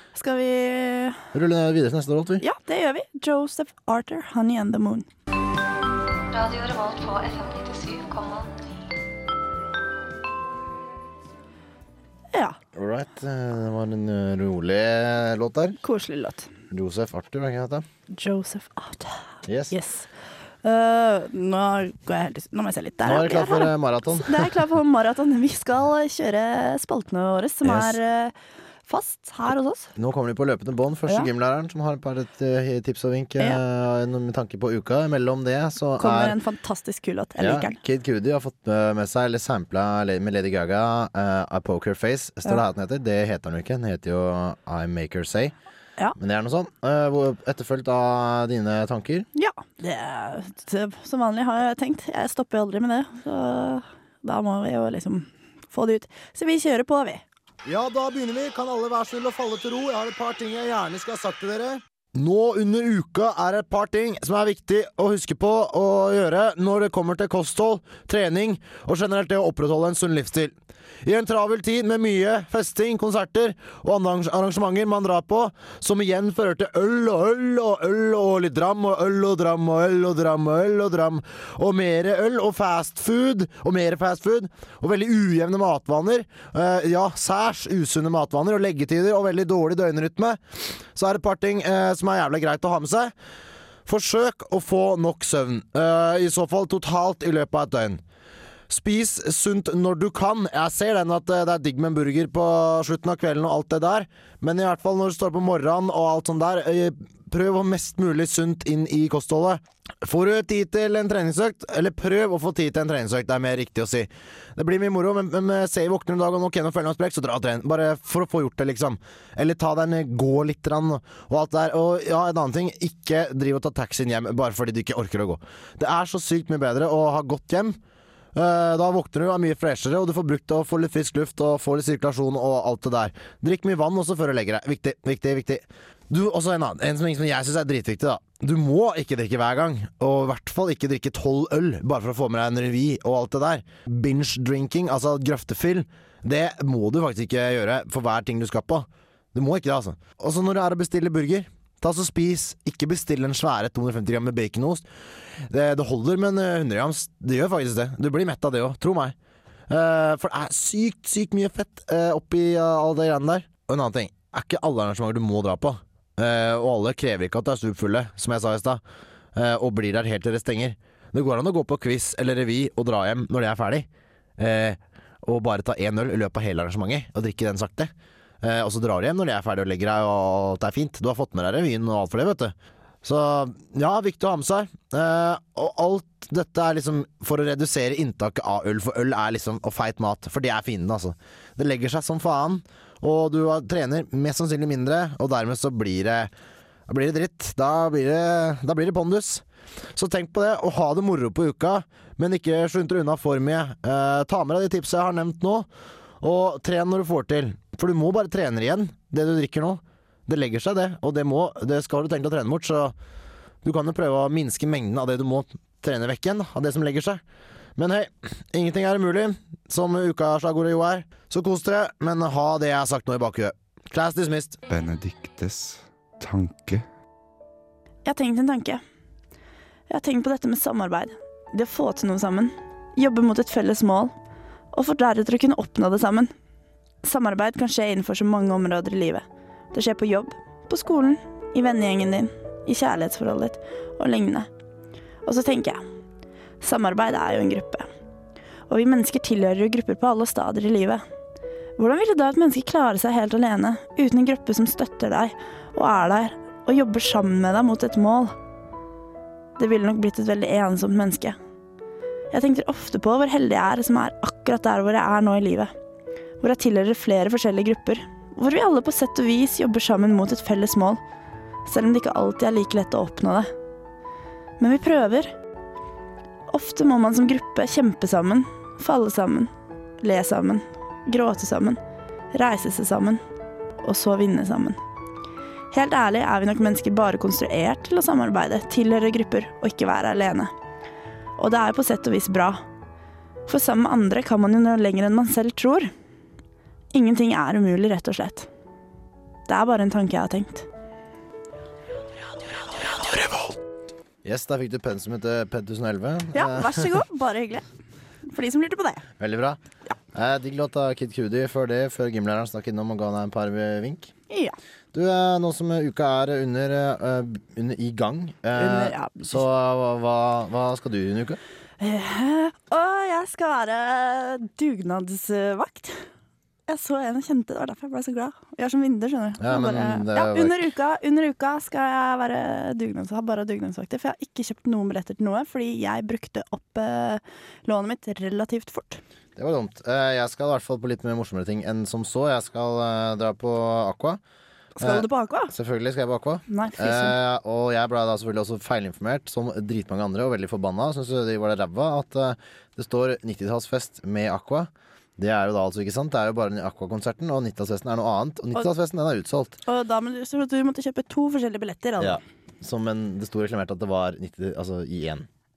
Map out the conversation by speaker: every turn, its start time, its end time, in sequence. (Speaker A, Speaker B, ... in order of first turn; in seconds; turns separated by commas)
Speaker A: 0.1-1.2, Speaker B: 1.3-2.4, Speaker A: 2.4-5.1, Speaker C: 6.3-8.5, Speaker A: 12.3-12.6, Speaker B: 12.7-15.8, Speaker A: 15.8-16.5, Speaker B: 16.7-17.8, Speaker A: 18.1-20.1, Speaker B: 19.4-19.7, Speaker A: 20.6-28.3, Speaker B: 23.0-24.5, Speaker B: 27.6-28.0, Speaker A: 28.9-29.9, Speaker B: 29.9-36.4, Speaker A: 36.0-37.8, Speaker B: 37.4-45.5, Speaker B: 46.1-49.3, Speaker A: 49.3-57.2, Speaker B: 57.6-90.4, Speaker B: 90.9-93.1, Speaker B: 93.8-98.0, Speaker B: 98.7-127.8, Speaker B: 128.3-154.8, Speaker B: 155.5-159.1, Speaker B: 159.7-168.8, Speaker B: 169.3-196.3, Speaker B: 196.9-199.4, Speaker B: 199.9-205.7, Speaker B: 206.2-212.9, Speaker B: 213.6-217.2, Speaker B: 217.8-224.6, Speaker D: 224.7-226.8, Speaker A: 228.1-228.8, Speaker A: 229.9-234.1, Speaker A: 234.7-236.3, Speaker A: 237.0-244.5, Speaker A: 245.2-245.8, Speaker A: 246.6-247.9, Speaker A: 248.7-251.0, Speaker A: 251.8-258.3, Speaker A: 259.6-261.4, Speaker A: 262.3-265.7, Speaker A: 266.4-271.0, Speaker A: 271.6-273.5, Speaker A: 274.6-275.3, Speaker A: 276.5-281.8, Speaker A: 282.3-283.2, Speaker A: 283.8-284.8, Speaker A: 285.7-290.5, Speaker A: 291.4-292.6, Speaker A: 293.5-295.9, Speaker A: 296.9-298.5, Speaker A: 299.5-300.7, Speaker B: 304.2-307.0, Speaker A: 306.3-307.6, Speaker A: 308.2-309.0, Speaker B: 309.2-309.6, Speaker B: 310.1-314.1, Speaker A: 314.3-314.6, Speaker B: 314.9-321.4, Speaker A: 318.6-319.4, Speaker A: 321.8-326.0, Speaker A: 326.7-339.0, Speaker B: 329.4-330.7, Speaker B: 339.4-344.2, Speaker A: 344.8-345.5, Speaker B: 344.8-359.6, Speaker A: 346.5-347.2, Speaker A: 359.6-362.2, Speaker B: 362.0-365.3